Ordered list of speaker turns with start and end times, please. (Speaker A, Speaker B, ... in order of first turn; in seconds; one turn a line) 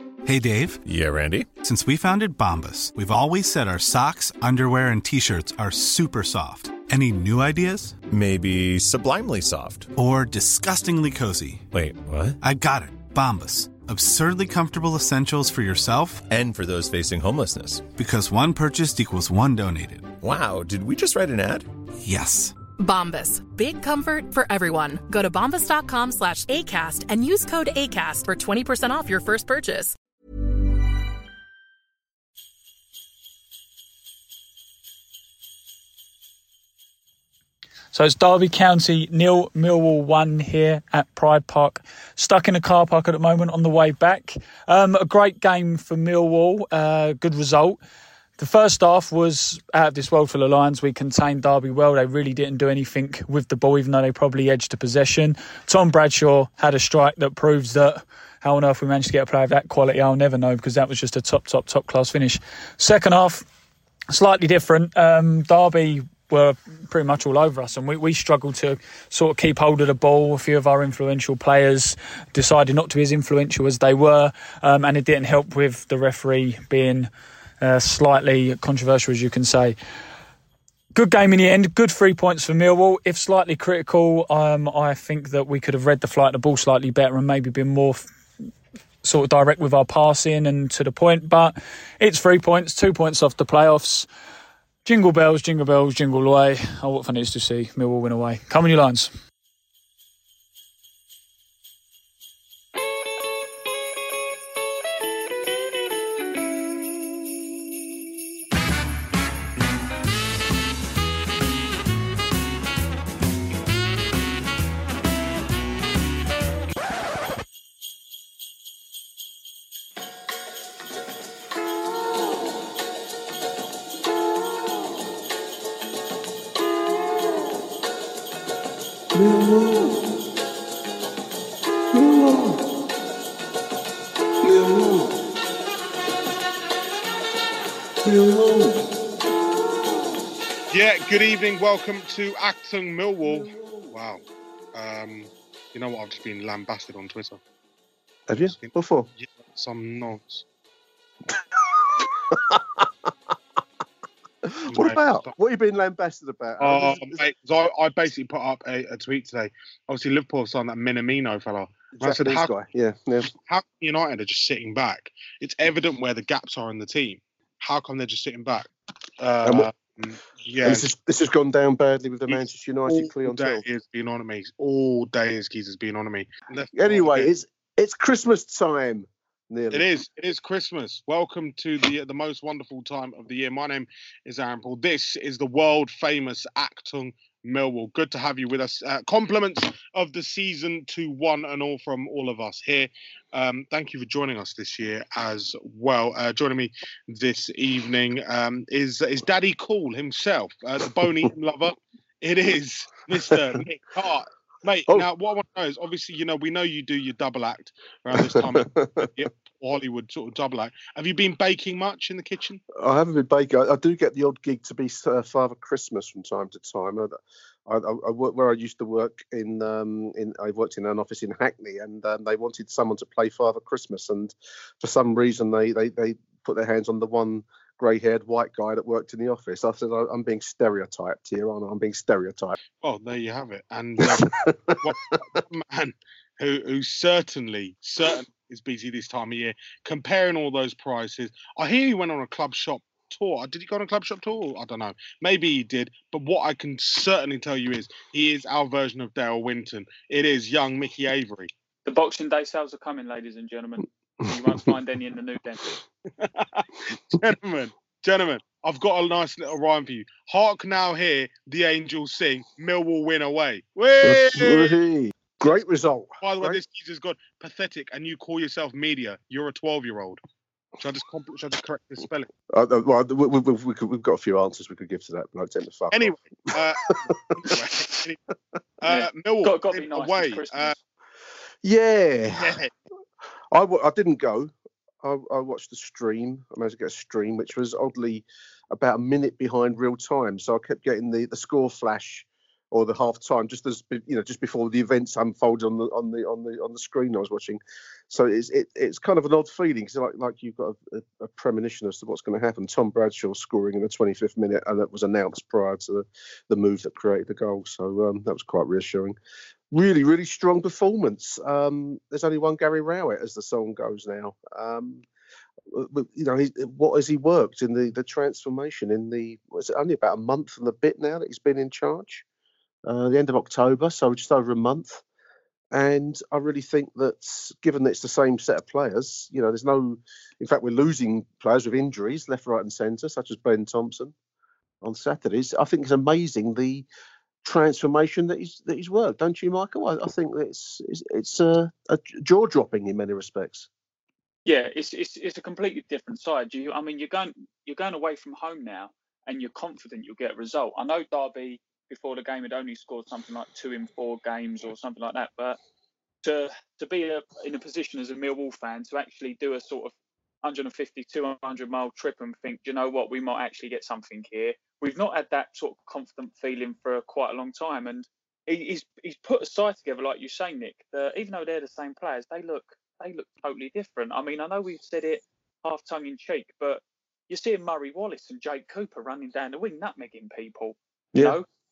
Speaker A: 0.2-0.8
Speaker B: 0.8-1.5
Speaker A: 1.6-8.0
Speaker B: 8.1-9.9
Speaker A: 9.9-11.7
Speaker B: 11.7-12.4
Speaker A: 12.4-16.3
Speaker B: 16.3-17.9
Speaker A: 17.9-20.1
Speaker B: 20.2-21.7
Speaker A: 22.0-22.6
Speaker C: 22.8-29.9
Speaker D: 37.9-47.8
Speaker D: 48.4-63.5
Speaker D: 64.1-77.1
Speaker D: 77.6-79.8
Speaker D: 80.9-88.1
Speaker D: 89.0-94.1
Speaker D: 94.8-99.1
Speaker E: 129.1-130.1
Speaker E: 131.9-132.6
Speaker E: 134.4-135.2
Speaker E: 138.0-138.9
Speaker F: 140.7-144.2
Speaker F: 144.7-147.4
Speaker E: 148.3-149.1
Speaker F: 148.5-150.4
Speaker E: 151.9-152.9
Speaker E: 154.4-157.2
Speaker F: 154.7-155.3
Speaker F: 156.6-162.5
Speaker E: 162.0-163.3
Speaker F: 163.3-168.7
Speaker F: 169.2-170.8
Speaker E: 169.4-169.7
Speaker E: 170.6-173.6
Speaker F: 172.3-177.3
Speaker E: 176.7-179.9
Speaker F: 179.7-212.6
Speaker E: 203.3-203.6
Speaker E: 208.1-209.1
Speaker E: 212.7-217.1
Speaker E: 217.7-232.5
Speaker F: 232.8-251.5
Speaker E: 234.0-235.1
Speaker D: 251.8-255.6
Speaker F: 256.2-264.8
Speaker E: 264.0-266.6
Speaker F: 266.2-270.2
Speaker F: 270.8-272.3
Speaker E: 272.5-276.1
Speaker F: 275.9-278.2
Speaker E: 276.9-277.5
Speaker F: 278.8-280.7
Speaker D: 278.9-280.8
Speaker E: 281.6-282.6
Speaker F: 282.4-282.7
Speaker E: 283.5-309.2
Speaker E: 309.7-315.0
Speaker E: 315.7-322.2
Speaker E: 322.9-325.0
Speaker E: 325.7-334.1
Speaker E: 334.8-336.9
Speaker E: 337.4-343.7
Speaker D: 344.4-355.6
Speaker D: 356.2-381.4